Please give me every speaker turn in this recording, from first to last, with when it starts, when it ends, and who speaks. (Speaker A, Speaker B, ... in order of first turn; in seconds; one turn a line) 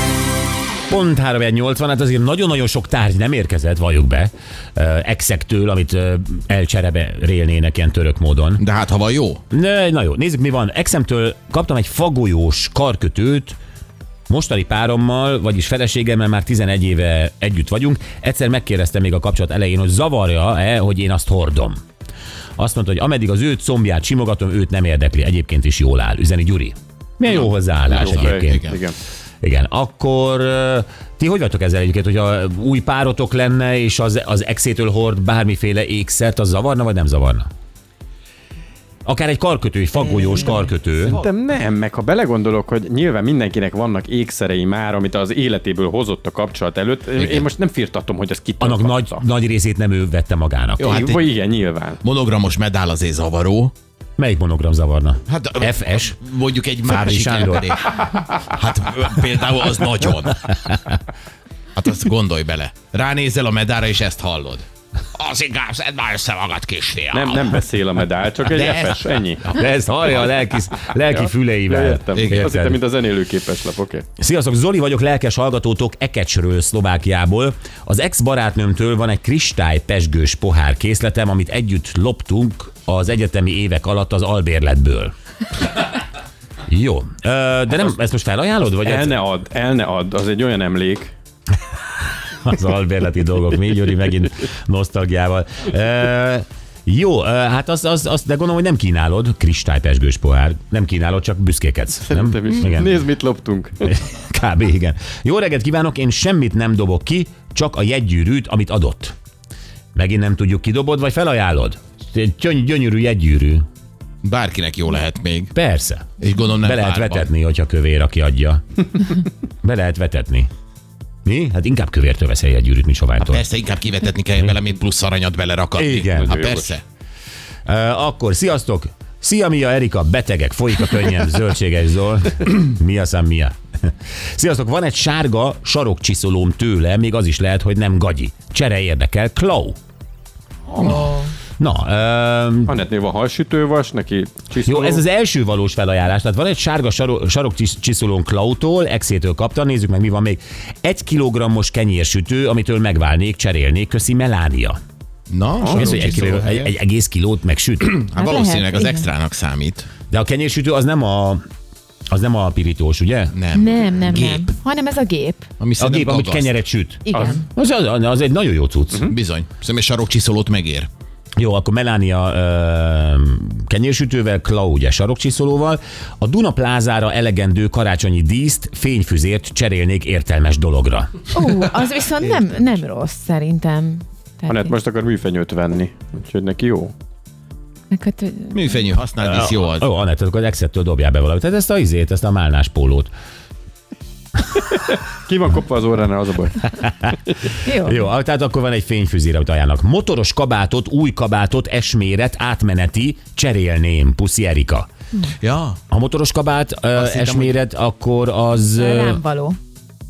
Speaker A: 0.9-8.6
Speaker B: 8.6-9.4
Speaker A: 9.5-13.6
Speaker A: 14.3-21.8
Speaker A: 22.6-28.6
Speaker B: 27.4-28.8
Speaker C: 28.0-29.0
Speaker A: 29.4-37.5
Speaker A: 39.1-41.2
Speaker C: 41.1-49.3
Speaker B: 47.2-47.5
Speaker A: 48.6-51.1
Speaker B: 50.8-51.2
Speaker C: 50.9-52.0
Speaker B: 52.0-53.7
Speaker A: 54.2-56.1
Speaker B: 55.3-60.7
Speaker A: 56.8-57.7
Speaker B: 61.8-67.6
Speaker C: 67.1-69.5
Speaker B: 68.5-69.0
Speaker A: 69.5-72.8
Speaker C: 71.2-74.0
Speaker B: 72.2-72.6
Speaker A: 74.2-85.1
Speaker A: 86.7-89.2
Speaker C: 88.8-91.1
Speaker A: 92.4-103.0
Speaker C: 102.1-104.0
Speaker A: 103.9-109.1
Speaker A: 110.0-113.7
Speaker B: 114.2-115.5
Speaker A: 115.5-116.1
Speaker B: 116.2-117.3
Speaker A: 116.6-119.0
Speaker A: 119.6-120.5
Speaker A: 121.2-123.5
Speaker B: 123.3-126.8
Speaker A: 125.8-126.4
Speaker C: 126.1-126.8
Speaker A: 127.7-139.8
Speaker D: 140.8-141.3
Speaker A: 141.6-142.8
Speaker C: 142.7-145.0
Speaker A: 144.7-154.8
Speaker B: 155.3-156.7
Speaker A: 155.7-158.0
Speaker B: 157.8-159.9
Speaker D: 158.2-159.1
Speaker A: 160.1-161.4
Speaker A: 162.1-163.4
Speaker B: 163.3-164.5
Speaker D: 163.5-165.5
Speaker B: 165.6-166.5
Speaker A: 165.8-169.1
Speaker D: 167.1-167.4
Speaker C: 167.1-167.4
Speaker B: 169.1-170.9
Speaker A: 171.4-181.3
Speaker D: 181.3-184.7
Speaker C: 184.5-186.9
Speaker D: 187.9-188.8
Speaker B: 188.5-189.9
Speaker A: 189.2-193.1
Speaker C: 194.9-196.7
Speaker D: 197.7-198.0
Speaker A: 197.8-204.9
Speaker B: 205.4-205.8
Speaker A: 205.9-209.2
Speaker B: 206.9-207.6
Speaker D: 208.8-209.6